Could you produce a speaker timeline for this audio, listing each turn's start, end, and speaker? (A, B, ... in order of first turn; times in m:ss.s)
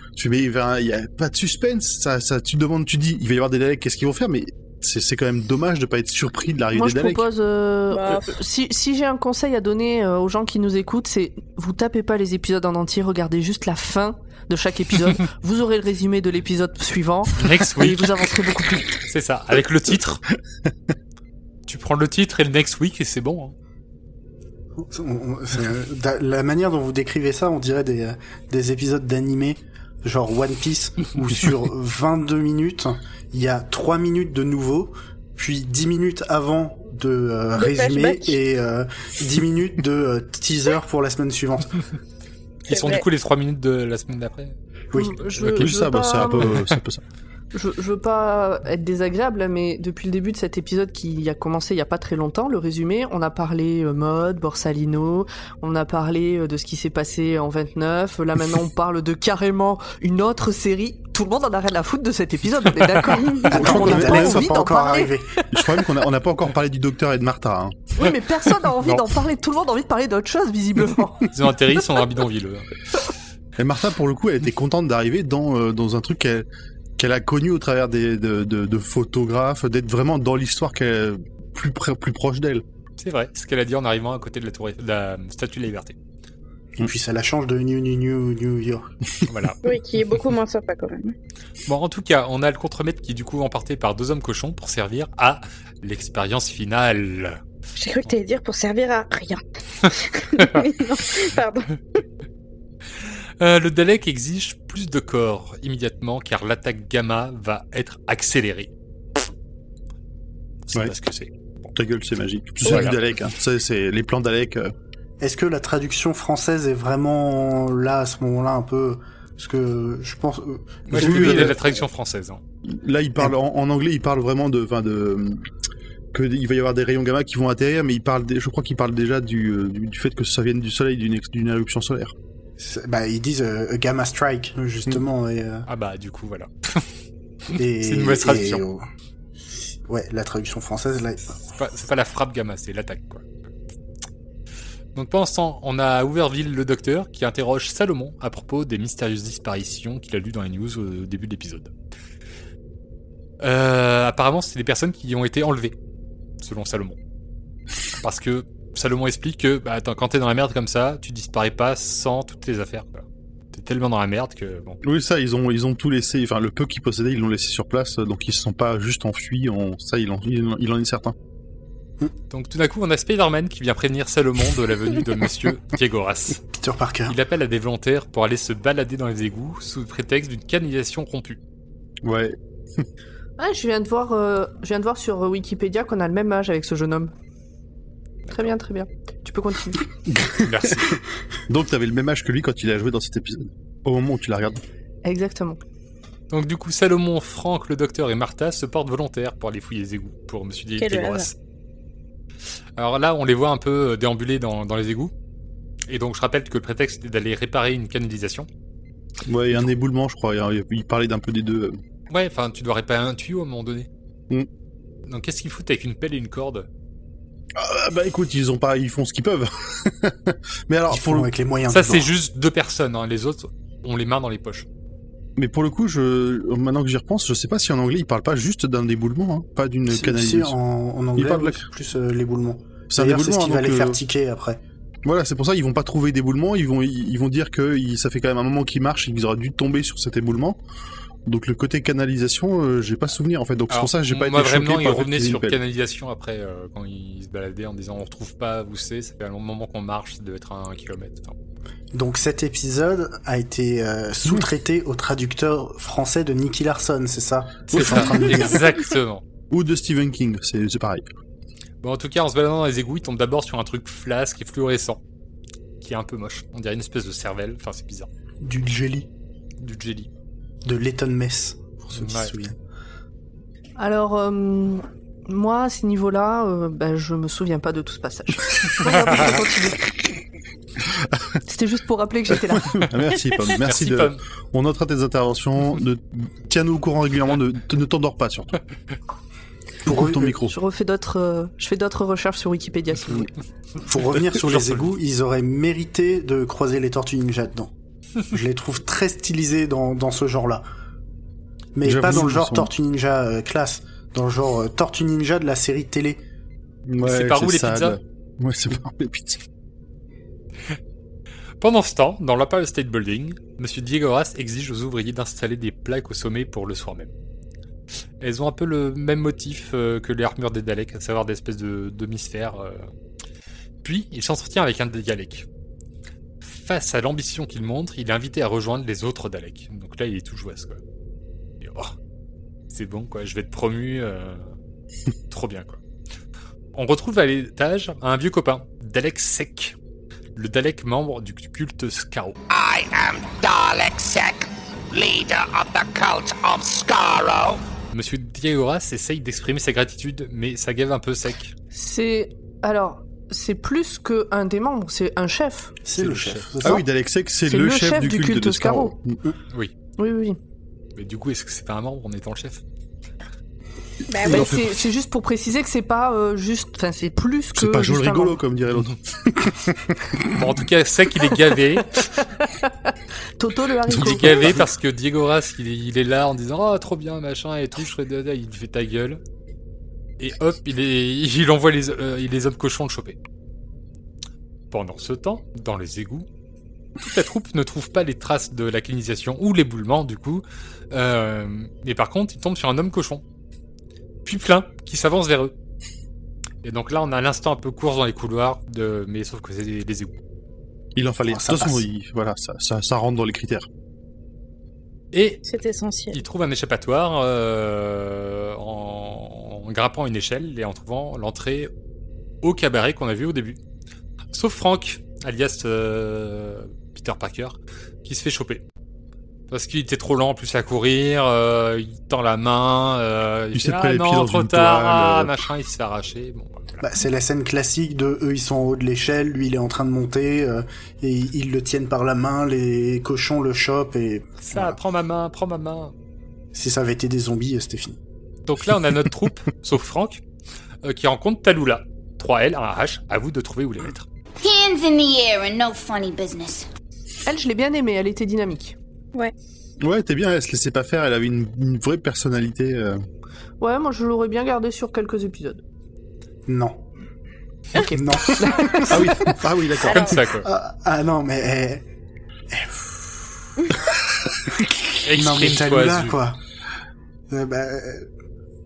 0:00.2-0:07.3 A
0:06.7-0:19.0 B
0:07.9-0:08.4 C
0:17.4-0:18.1 D
0:19.0-0:20.2 D
0:21.7-0:23.5 D
0:24.8-0:41.8 E
0:37.6-0:38.4 C
0:42.7-0:44.6 D
0:42.7-0:43.0 C
0:44.9-0:45.2 E
0:45.0-0:46.6 B
0:45.4-0:45.7 D
0:45.6-0:47.0 A
0:47.5-1:05.8 B
1:03.4-1:05.4 E
1:03.5-1:04.6 A
1:05.5-1:07.8 A
1:08.0-1:11.3 B
1:11.3-1:12.7 D
1:13.6-1:16.5 A
1:17.0-1:22.6 A
1:23.0-1:26.0 D
1:26.8-1:28.9 E
1:29.3-1:29.6 D
1:29.6-1:31.2 C
1:31.7-1:37.4 D
1:37.8-1:42.0 C
1:43.4-1:48.7 D
1:50.6-1:51.7 D
1:51.7-1:54.7 A
1:52.6-1:53.0 D
1:55.2-2:01.6 E
2:00.9-2:02.4 D
2:00.9-2:01.6 A
2:02.6-2:05.4 A
2:06.1-2:12.1 A
2:12.6-2:15.7 E
2:15.7-2:16.9 D
2:17.6-2:18.6 D
2:17.6-2:18.8 E
2:19.5-2:21.4 E
2:21.5-2:23.3 D
2:25.0-2:31.7 D
2:33.4-2:35.8 D
2:36.4-2:37.0 D
2:38.0-2:44.8 D
2:44.8-2:51.2 A
2:52.3-2:56.4 D
2:56.6-2:57.2 E
2:57.1-3:01.4 D
3:02.0-3:02.9 A
3:03.4-3:07.1 B
3:08.3-3:08.5 D
3:08.3-3:09.8 B
3:10.2-3:10.8 A
3:10.4-3:11.0 D
3:11.5-3:14.6 A
3:15.0-3:15.6 B
3:16.3-3:21.4 D
3:20.8-3:21.3 C
3:22.8-3:25.1 D
3:25.9-3:28.5 D
3:29.3-3:31.8 A
3:32.1-3:33.9 D
3:35.1-3:36.7 D
3:37.6-3:41.3 A
3:40.9-3:42.1 E
3:41.7-3:44.7 D
3:45.4-3:50.6 A
3:49.9-3:54.6 E
3:51.2-3:51.6 A
3:52.9-3:54.0 A
3:55.0-4:00.6 A
4:01.3-4:05.6 A
4:03.7-4:11.4 D
4:11.9-4:18.6 E
4:17.7-4:19.2 D
4:17.8-4:18.4 A
4:19.5-4:21.0 A
4:21.8-4:25.0 D
4:25.8-4:28.1 D
4:28.4-4:29.1 E
4:29.6-4:30.1 D
4:30.6-4:32.6 E
4:32.0-4:32.3 D
4:33.8-4:40.0 B
4:38.9-4:39.4 D
4:40.9-4:41.4 A
4:41.4-4:42.9 B
4:42.3-4:48.6 A
4:43.5-4:44.2 D
4:49.9-4:50.3 E
4:49.9-4:50.6 A
4:50.3-4:53.3 B
4:53.8-4:57.7 E
4:54.4-4:54.9 D
4:58.3-5:00.6 E
5:01.8-5:06.2 E
5:01.8-5:02.7 A
5:06.9-5:09.4 A
5:07.0-5:08.0 D
5:11.6-5:17.1 D
5:18.2-5:22.9 D
5:23.8-5:25.5 D
5:26.4-5:30.8 D
5:31.6-5:32.0 D
5:32.7-5:34.5 D
5:35.3-5:35.8 D
5:36.7-5:39.8 D
5:40.4-5:42.4 D
5:42.5-5:47.6 F
5:47.9-5:51.5 D
5:51.7-5:55.8 B
5:55.8-5:56.8 E
5:56.0-5:56.4 D
5:56.6-5:59.2 A
5:57.5-5:59.0 B
6:00.0-6:00.4 B
6:01.0-6:02.6 D
6:04.1-6:04.6 C
6:04.2-6:04.7 A
6:04.2-6:08.4 B
6:07.6-6:10.3 A
6:10.3-6:12.0 D
6:13.4-6:14.5 B
6:13.9-6:14.6 A
6:13.9-6:19.2 D
6:20.2-6:23.2 D
6:24.7-6:26.3 D
6:27.0-6:33.2 D
6:34.2-6:35.5 D
6:36.6-6:40.1 D
6:41.0-6:43.7 A
6:41.3-6:41.8 E
6:45.1-6:45.4 D
6:45.4-6:46.2 C
6:46.1-6:51.7 D
6:52.4-6:53.6 D
6:54.3-6:58.6 D
6:59.5-7:06.8 D
7:03.5-7:05.4 A
7:06.8-7:14.8 E
7:14.4-7:15.9 D
7:16.5-7:18.0 E
7:18.5-7:20.2 D
7:20.8-7:24.1 D
7:24.4-7:26.7 G
7:27.3-7:28.8 B
7:29.8-7:33.0 A
7:33.6-7:35.6 B
7:36.5-7:36.8 E
7:37.8-7:39.0 B
7:38.0-7:39.3 E
7:38.9-7:40.2 A
7:39.8-7:40.2 C
7:39.9-7:40.5 D
7:40.4-7:41.8 E
7:42.5-7:43.5 E
7:45.0-7:46.2 D
7:45.1-7:46.4 E
7:47.3-7:48.1 E